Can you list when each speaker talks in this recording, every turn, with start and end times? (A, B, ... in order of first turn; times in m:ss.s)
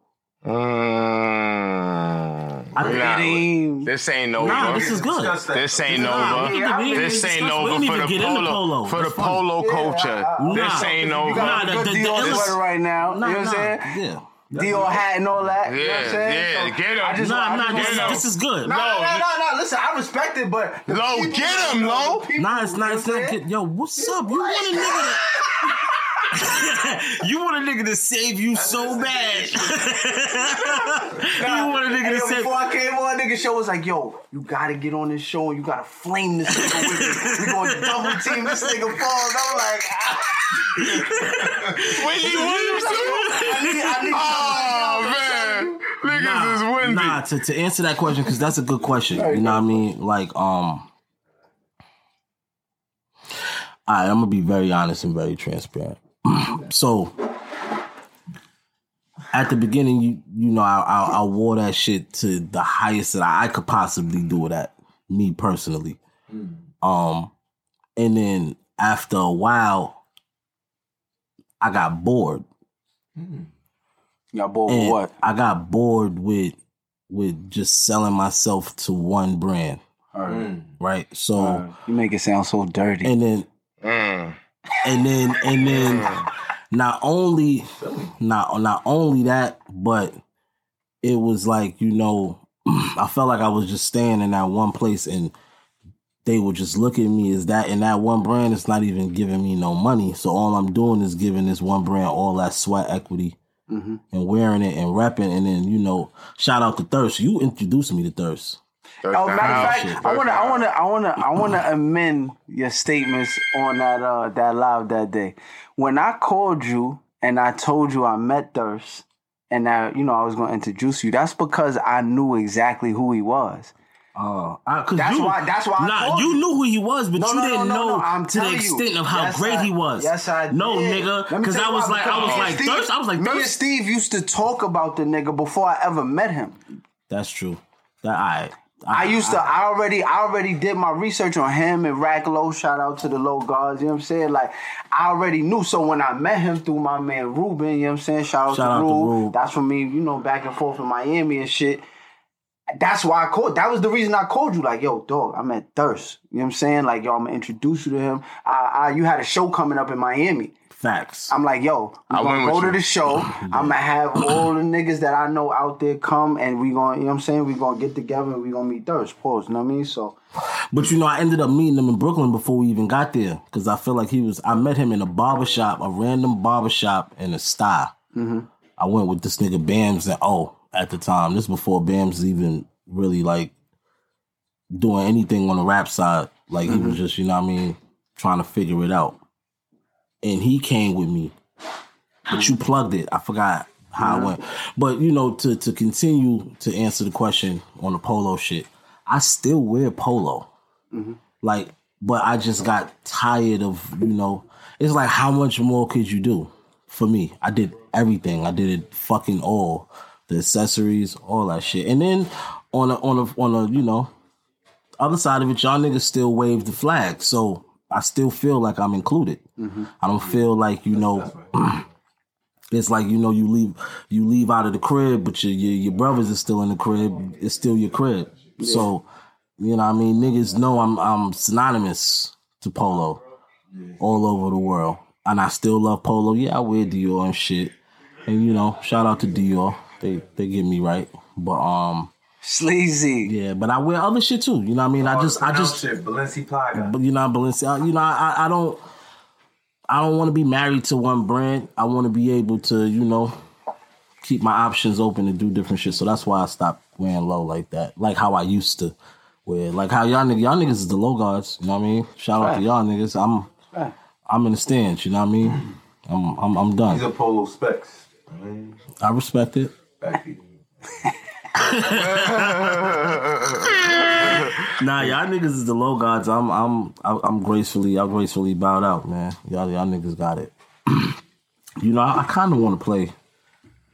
0:00.4-0:05.0 A
0:02.8-0:03.1 B
0:02.8-0:03.9 C
0:04.4-0:09.4 B
0:04.4-0:06.4 D
0:05.5-0:12.6 A
0:06.1-0:07.1 C
0:09.6-0:14.0 C
0:10.4-0:15.0 B
0:14.5-0:23.4 C
0:15.6-0:19.3 A
0:17.2-0:18.7 B
0:20.9-0:22.3 A
0:22.4-0:25.2 B
0:24.0-0:25.9 C
0:26.3-0:32.5 B
0:28.5-0:30.0 D
0:31.2-0:41.3 C
0:36.6-0:38.6 B
0:40.6-0:44.1 B
0:41.8-0:47.2 A
0:42.2-0:45.7 C
0:46.0-0:50.9 B
0:49.1-0:49.9 C
0:53.9-0:57.3 B
0:59.3-1:06.0 B
1:06.3-1:06.6 D
1:06.8-1:07.3 B
1:08.0-1:10.0 B
1:11.6-1:12.4 B
1:13.2-1:13.5 D
1:14.3-1:15.1 C
1:14.7-1:16.6 B
1:17.1-1:19.8 B
1:20.1-1:20.5 C
1:20.3-1:20.7 D
1:20.8-1:21.6 B
1:21.3-1:23.1 C
1:23.0-1:23.5 B
1:23.8-1:24.4 A
1:24.8-1:26.1 B
1:25.6-1:26.2 A
1:26.7-1:30.2 B
1:27.8-1:28.1 D
1:31.0-1:35.3 B
1:36.2-1:43.4 B
1:43.7-1:44.0 C
1:44.1-1:48.6 B
1:49.0-1:50.7 A
1:49.1-2:03.7 C
1:49.4-1:50.0 B
2:04.1-2:13.5 B
2:05.0-2:06.4 C
2:07.2-2:16.6 C
2:12.1-2:12.5 A
2:17.1-2:19.4 B
2:18.9-2:31.8 C
2:28.5-2:29.4 B
2:32.8-2:40.5 C
2:40.7-2:41.3 B
2:41.3-2:50.2 C
2:42.1-2:43.1 A
2:43.3-2:43.8 B
2:50.7-2:57.9 B
2:58.1-2:58.5 C
2:58.8-3:03.5 B
3:04.7-3:09.2 B
3:06.6-3:07.0 C
3:10.2-3:11.3 B
3:12.3-3:20.5 B
3:14.0-3:14.4 C
3:20.9-3:21.2 C
3:21.4-3:34.1 B
3:35.0-3:39.4 B
3:39.6-3:39.9 C
3:40.0-3:41.8 B
3:40.9-3:41.5 D
3:42.7-3:49.0 B
3:48.6-3:48.9 C
3:49.6-3:53.2 B
3:54.0-3:57.7 B
3:58.2-4:02.1 B
4:02.4-4:03.3 C
4:03.2-4:05.8 B
4:05.0-4:06.9 D
4:06.7-4:08.8 B
4:09.9-4:13.4 B
4:14.2-4:18.9 B
4:19.4-4:23.5 B
4:24.3-4:27.0 B
4:26.9-4:28.8 D
4:29.0-4:29.7 B
4:30.0-4:30.4 D
4:31.6-4:32.9 B
4:32.0-4:33.6 A
4:33.9-4:41.2 B
4:41.8-4:43.1 B